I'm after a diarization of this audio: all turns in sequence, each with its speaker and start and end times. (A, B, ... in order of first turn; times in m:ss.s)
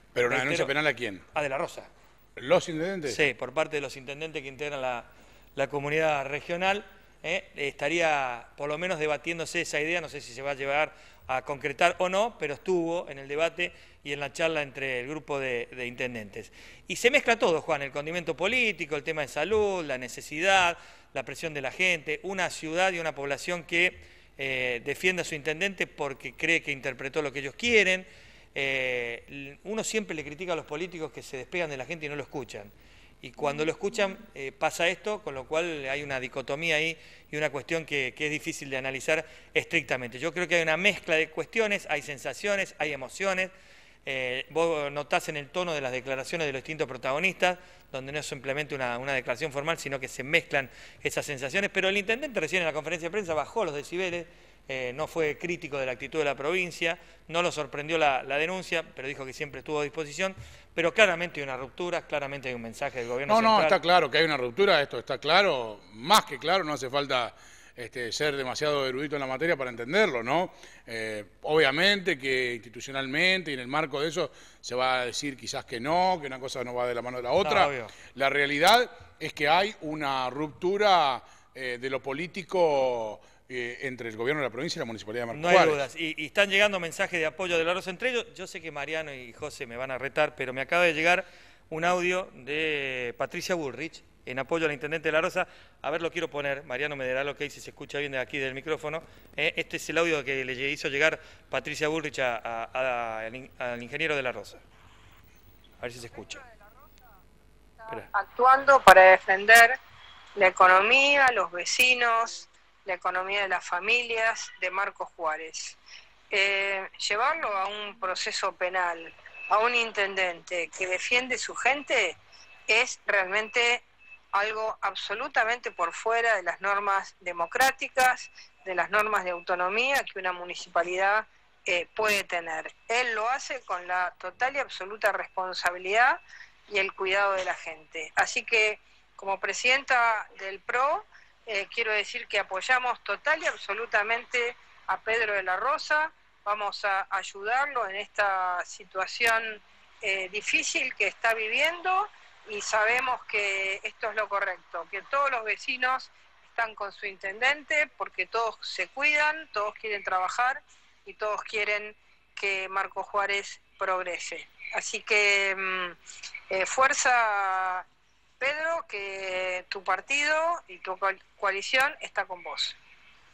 0:00.2-0:01.2 A
0:00.3-0:00.7 B
0:01.3-0:01.9 B
0:02.4-0:03.2 A
0:03.1-0:43.5 B
0:44.1-1:03.8 B
1:03.3-1:25.9 A
1:17.4-1:18.0 B
1:25.3-1:44.6 B
1:45.8-1:46.4 B
1:46.4-1:46.8 C
1:47.8-1:49.8 C
1:50.4-1:55.8 C
1:56.3-2:02.2 C
2:02.7-2:46.0 C
2:46.5-2:47.9 C
2:48.4-2:52.8 C